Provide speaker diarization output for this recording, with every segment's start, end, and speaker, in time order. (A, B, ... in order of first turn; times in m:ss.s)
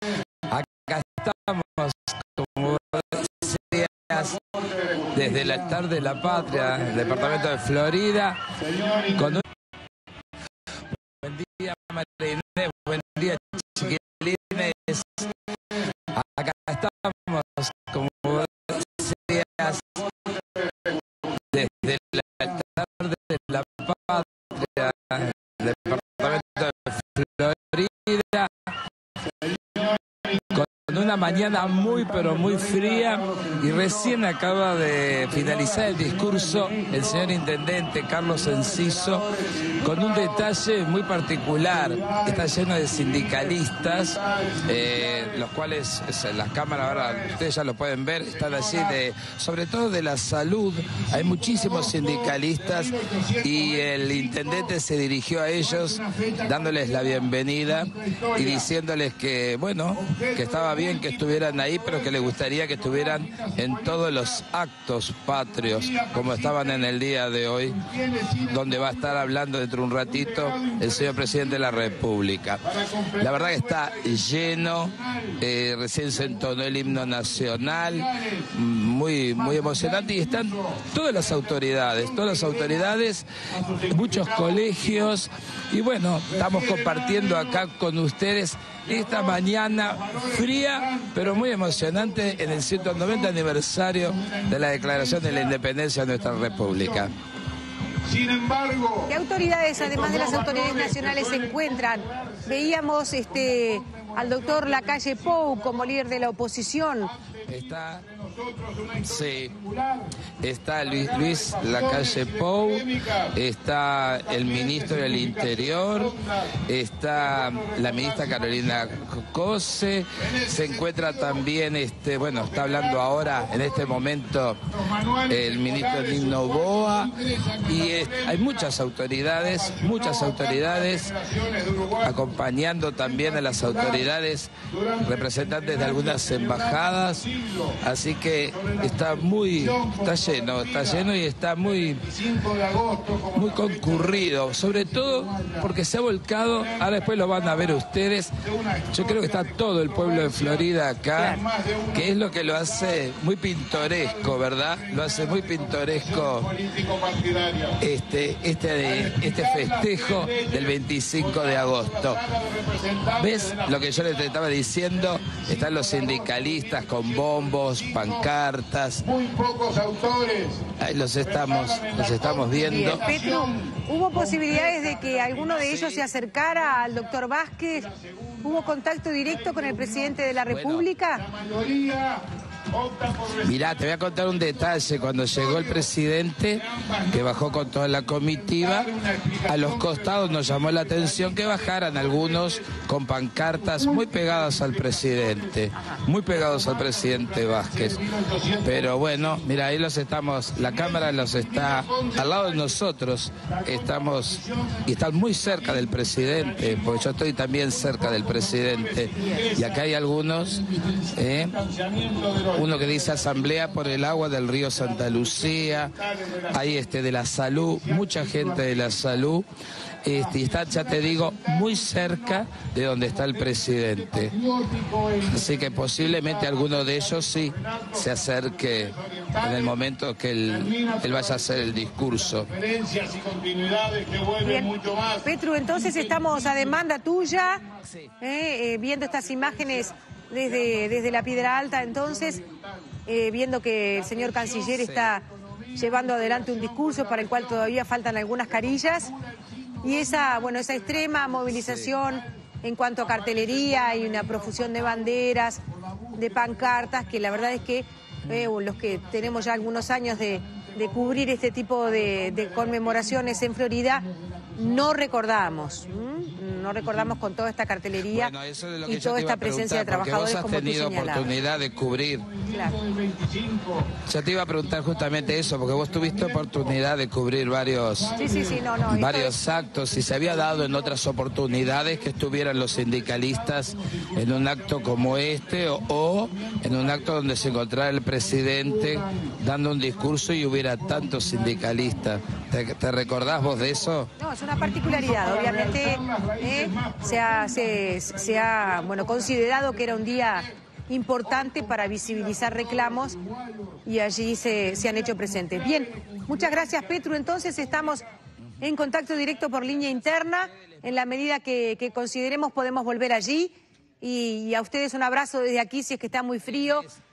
0:00.5-0:04.4 A
0:04.6-0:05.1 B
0:05.1-0:09.4 A
0:08.6-0:09.4 B
0:11.2-0:15.3 A
0:16.1-0:20.0 A
0:21.5-0:28.7 A
0:29.5-0:33.2 B
0:30.5-1:07.8 A
0:39.7-0:40.5 B
0:41.8-0:45.4 B
0:46.7-0:47.4 B
0:48.2-0:49.0 B
0:50.9-0:54.8 B
0:55.6-0:58.7 B
0:59.9-1:04.4 B
1:05.4-1:06.9 B
1:07.7-1:09.3 B
1:08.4-1:23.3 A
1:10.0-1:12.0 B
1:12.6-1:15.4 B
1:16.1-1:18.5 B
1:19.3-1:25.2 B
1:23.9-1:37.1 A
1:26.3-1:27.7 B
1:28.9-1:37.1 B
1:38.0-1:39.2 B
1:39.1-1:47.1 C
1:39.7-1:46.3 B
1:47.0-1:50.2 B
1:47.5-1:48.0 A
1:49.0-1:49.5 A
1:50.4-2:04.7 A
1:50.8-1:53.4 B
1:54.1-1:56.6 B
1:57.2-1:58.9 B
2:00.2-2:01.5 B
2:02.2-2:04.0 B
2:04.7-2:08.8 B
2:05.3-2:11.1 A
2:09.4-2:12.4 B
2:12.0-2:17.2 A
2:13.0-2:14.1 B
2:14.6-2:17.8 B
2:17.8-2:22.0 A
2:18.5-2:25.7 B
2:23.3-2:28.3 A
2:26.5-2:33.1 B
2:28.9-2:31.4 A
2:31.9-2:36.5 A
2:33.7-2:37.8 B
2:37.8-2:42.2 A
2:38.8-2:48.3 B
2:43.2-2:49.1 A
2:49.0-3:00.2 B
2:50.8-2:53.0 A
2:52.6-2:57.9 C
2:55.6-2:56.0 A
2:58.4-3:01.2 C
3:00.4-3:00.9 A
3:01.1-3:05.9 B
3:03.4-3:08.9 A
3:06.5-3:12.8 B
3:09.5-3:18.0 A
3:13.4-3:19.5 B
3:15.8-3:16.0 C
3:18.6-3:31.6 A
3:20.5-3:22.8 B
3:23.4-3:30.0 B
3:29.1-3:29.5 C
3:30.5-3:36.9 B
3:32.4-3:36.0 A
3:36.5-3:39.4 A
3:37.7-3:39.2 B
3:40.0-3:44.3 A
3:40.1-3:49.8 B
3:45.2-3:52.5 A
3:50.4-3:57.9 B
3:54.4-3:54.7 C
3:55.2-3:57.6 C
3:57.8-3:58.1 A
3:58.2-4:02.4 C
3:59.0-4:03.0 B
4:03.0-4:05.2 C
4:03.9-4:07.8 B
4:04.7-4:05.1 A
4:05.8-4:09.1 C
4:08.4-4:12.3 B
4:09.8-4:15.6 C
4:11.5-4:11.9 A
4:13.0-4:17.7 B
4:16.2-4:24.0 C
4:18.3-4:27.2 B
4:24.6-4:28.3 C
4:28.1-4:32.3 A
4:28.8-4:31.3 C
4:31.1-4:34.0 B
4:32.5-4:32.7 C
4:34.0-4:38.2 A
4:34.8-4:36.8 B
4:37.9-4:38.7 B
4:38.2-4:39.4 C
4:38.8-4:54.1 A
4:39.4-4:47.6 B
4:48.2-4:49.4 B
4:49.9-4:52.2 B
4:53.1-5:00.5 B
4:54.2-5:03.2 C
5:01.2-5:03.9 B
5:03.8-5:08.0 C
5:04.4-5:08.1 B
5:08.6-5:16.9 C
5:16.5-5:17.0 A